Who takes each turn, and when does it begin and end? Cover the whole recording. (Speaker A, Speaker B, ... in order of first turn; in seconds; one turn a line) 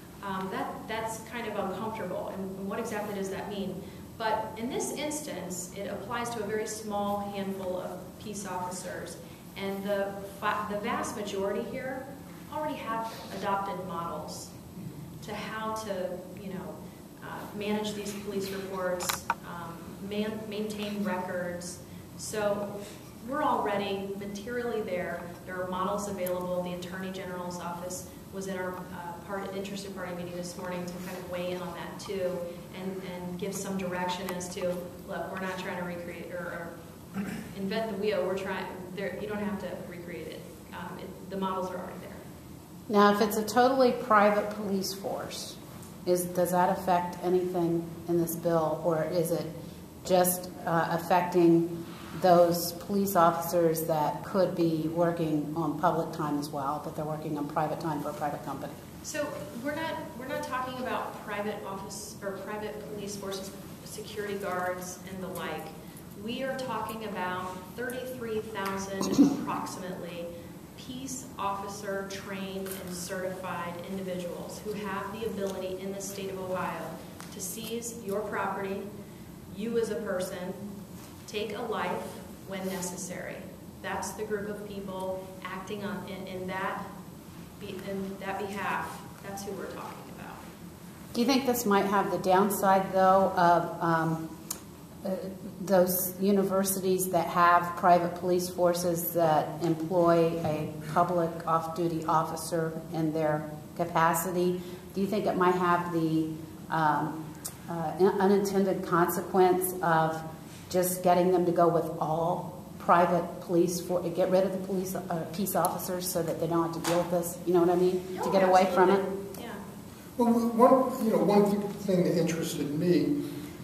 Speaker A: 0.2-14.5
Speaker A: 15.2-36.7
Speaker A: 37.3-42.2
Speaker B: 42.9-58.8
Speaker A: 59.0-78.9
Speaker A: 79.5-80.6
Speaker A: 81.3-86.8
Speaker A: 87.6-90.4
Speaker B: 91.1-94.3
Speaker B: 95.0-119.0
Speaker A: 118.1-119.6
Speaker C: 120.2-123.2